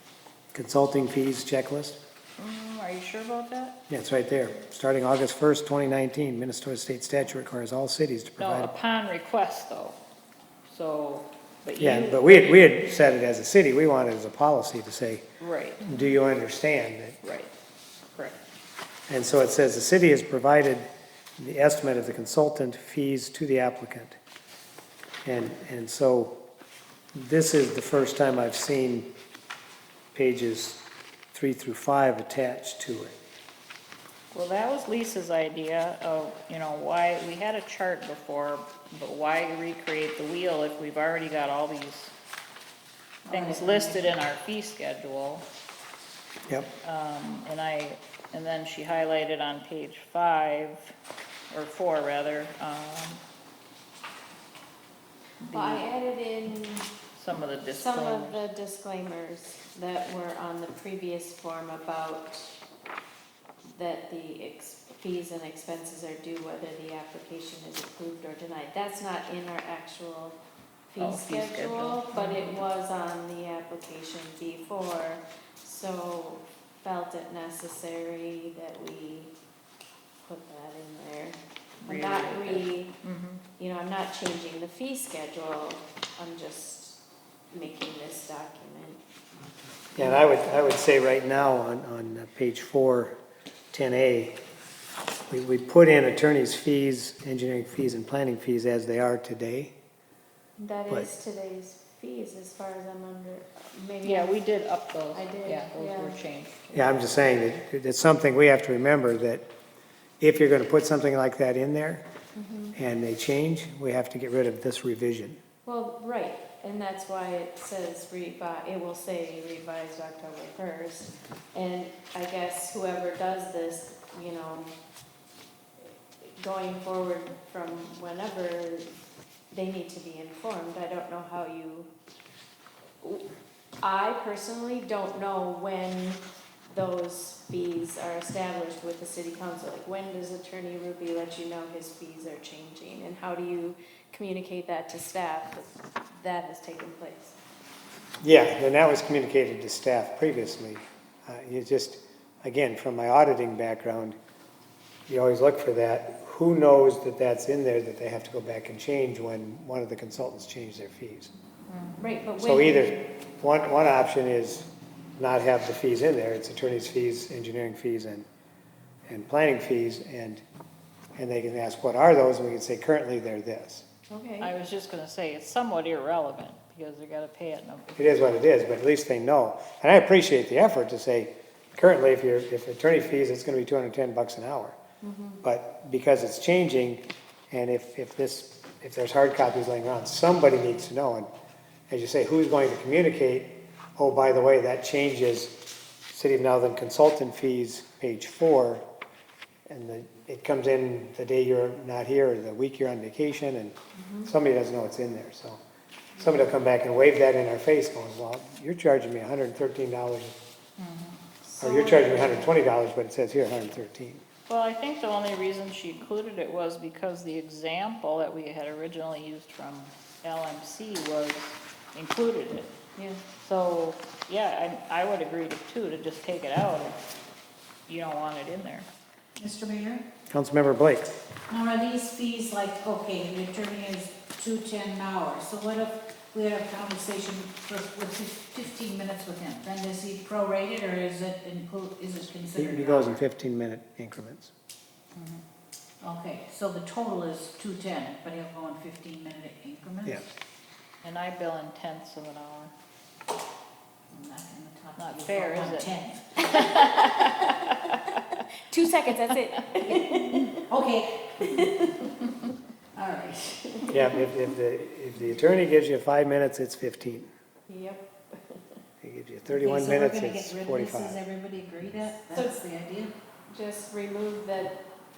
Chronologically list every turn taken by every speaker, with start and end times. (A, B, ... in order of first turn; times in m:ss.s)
0:00.5-0:02.0 A
0:02.4-0:03.8 B
0:03.9-0:08.7 A
0:08.4-0:10.0 B
0:10.7-0:12.8 B
0:11.8-0:15.2 A
0:15.4-0:15.9 B
0:15.8-0:17.2 A
0:17.2-0:17.5 B
0:18.1-0:18.4 B
0:19.1-0:24.2 A
0:25.2-0:26.4 A
0:27.1-0:29.1 A
0:30.1-0:33.1 A
0:34.3-0:42.1 B
0:43.2-0:44.1 C
0:43.3-0:45.4 B
0:46.8-0:50.9 B
0:51.5-0:53.2 B
0:55.4-0:55.8 B
0:55.5-0:56.9 D
0:57.2-0:58.4 B
0:57.7-1:02.6 D
1:03.6-1:10.4 D
1:10.9-1:19.3 D
1:11.0-1:12.6 B
1:20.2-1:22.9 D
1:21.8-1:23.4 B
1:23.6-1:27.0 D
1:27.5-1:29.0 D
1:30.0-1:33.2 A
1:30.0-1:30.6 D
1:33.7-1:34.4 A
1:35.3-1:39.7 A
1:40.6-1:44.4 D
1:44.0-1:47.4 B
1:45.1-1:46.2 D
1:46.7-1:49.5 A
1:50.2-1:52.1 A
1:52.3-1:52.8 D
1:52.8-1:55.4 A
1:55.6-2:04.8 D
2:05.8-2:08.9 D
2:09.5-2:11.9 D
2:13.8-2:27.4 D
2:28.2-2:34.2 A
2:35.1-2:41.3 A
2:41.7-2:42.0 B
2:42.0-2:43.1 D
2:42.4-2:48.2 A
2:49.1-2:50.4 A
2:51.2-2:53.8 A
2:54.1-2:54.5 D
2:54.4-2:58.2 B
2:58.0-3:04.8 A
3:05.0-3:05.4 D
3:05.4-3:11.3 A
3:11.9-3:15.6 A
3:16.1-3:18.8 A
3:19.7-3:25.6 A
3:24.0-3:24.3 D
3:26.2-3:30.3 A
3:30.8-3:31.2 B
3:31.4-3:32.5 D
3:31.6-3:34.2 A
3:34.5-3:42.7 B
3:43.0-3:43.2 D
3:43.4-3:47.0 B
3:47.9-3:48.9 B
3:49.4-3:50.0 C
3:50.3-3:51.2 A
3:51.5-4:03.2 C
4:02.6-4:04.5 A
4:05.2-4:05.4 C
4:06.0-4:10.2 C
4:11.0-4:12.7 B
4:14.1-4:16.9 C
4:15.0-4:18.4 B
4:18.7-4:20.6 D
4:19.8-4:21.9 C
4:21.4-4:22.1 D
4:23.0-4:23.8 C
4:23.8-4:24.2 D
4:23.9-4:27.3 A
4:27.7-4:28.6 D
4:29.0-4:31.2 A
4:29.5-4:33.1 C
4:32.3-4:32.6 D
4:33.5-4:34.8 D